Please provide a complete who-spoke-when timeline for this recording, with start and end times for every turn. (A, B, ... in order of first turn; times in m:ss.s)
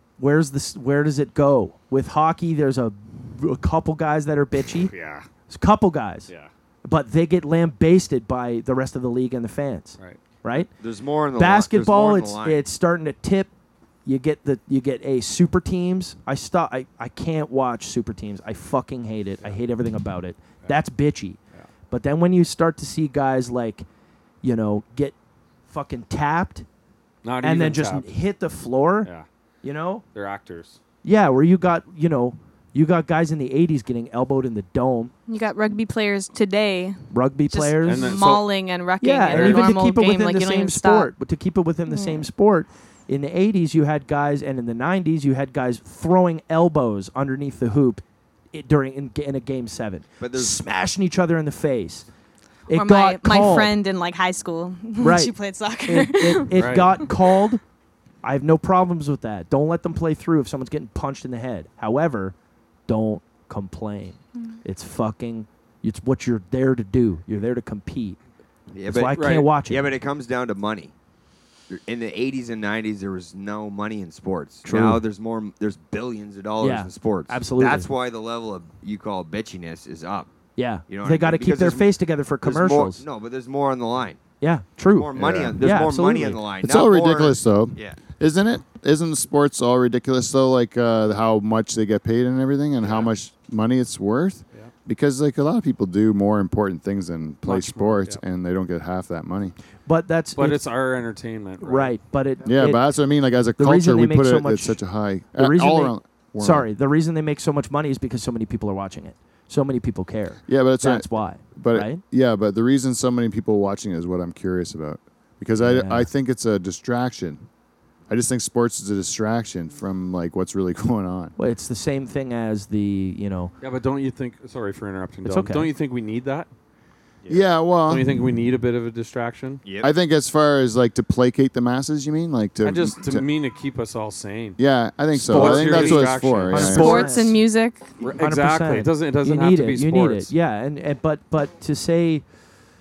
0:00.2-0:04.9 A
0:04.9-0:05.3 B
0:05.5-0:06.3 A
0:06.8-0:10.7 A
0:10.8-0:12.6 C
0:11.3-0:13.5 A
0:14.0-0:21.4 A
0:21.9-0:23.8 A
0:24.4-0:25.1 A
0:25.7-0:26.6 A
0:27.2-0:28.1 B
0:27.4-0:29.1 A
0:29.6-0:30.0 A
0:30.1-0:30.8 B
0:31.0-0:35.1 A
0:35.3-0:37.0 D
0:37.1-0:38.2 A
0:37.5-0:41.1 D
0:37.8-0:38.5 B
0:39.0-0:52.0 A
0:39.3-0:39.7 B
0:41.9-0:42.3 D
0:50.2-0:50.6 C
0:52.7-0:53.7 A
0:52.7-0:56.7 D
0:55.0-0:55.3 A
0:55.8-0:57.6 A
0:56.5-0:57.0 B
0:58.2-1:02.3 A
1:02.9-1:08.2 A
1:08.7-1:10.9 C
1:08.9-1:09.9 A
1:09.1-1:09.5 B
1:11.7-1:20.3 C
1:14.6-1:15.0 E
1:16.6-1:17.9 A
1:20.6-1:23.0 A
1:20.9-1:21.9 C
1:22.4-1:24.2 C
1:24.4-1:26.4 A
1:24.9-1:28.0 C
1:25.1-1:25.6 E
1:26.6-1:39.5 E
1:37.4-1:38.2 B
1:39.8-1:40.6 A
1:40.4-1:42.0 B
1:41.6-1:42.8 A
1:42.4-1:46.7 E
1:43.6-1:44.8 A
1:45.3-1:52.0 A
1:50.5-1:57.4 E
1:55.6-1:56.1 A
1:58.1-2:01.3 E
2:01.4-2:03.5 A
2:03.6-2:06.5 B
2:05.2-2:05.7 A
2:07.3-2:08.1 E
2:07.9-2:09.6 B
2:09.6-2:09.9 C
2:09.8-2:13.2 E
2:12.6-2:14.6 B
2:14.6-2:17.1 E
2:15.1-2:17.2 B
2:15.3-2:17.4 A
2:16.7-2:17.8 D
2:18.0-2:20.3 B
2:18.2-2:22.2 A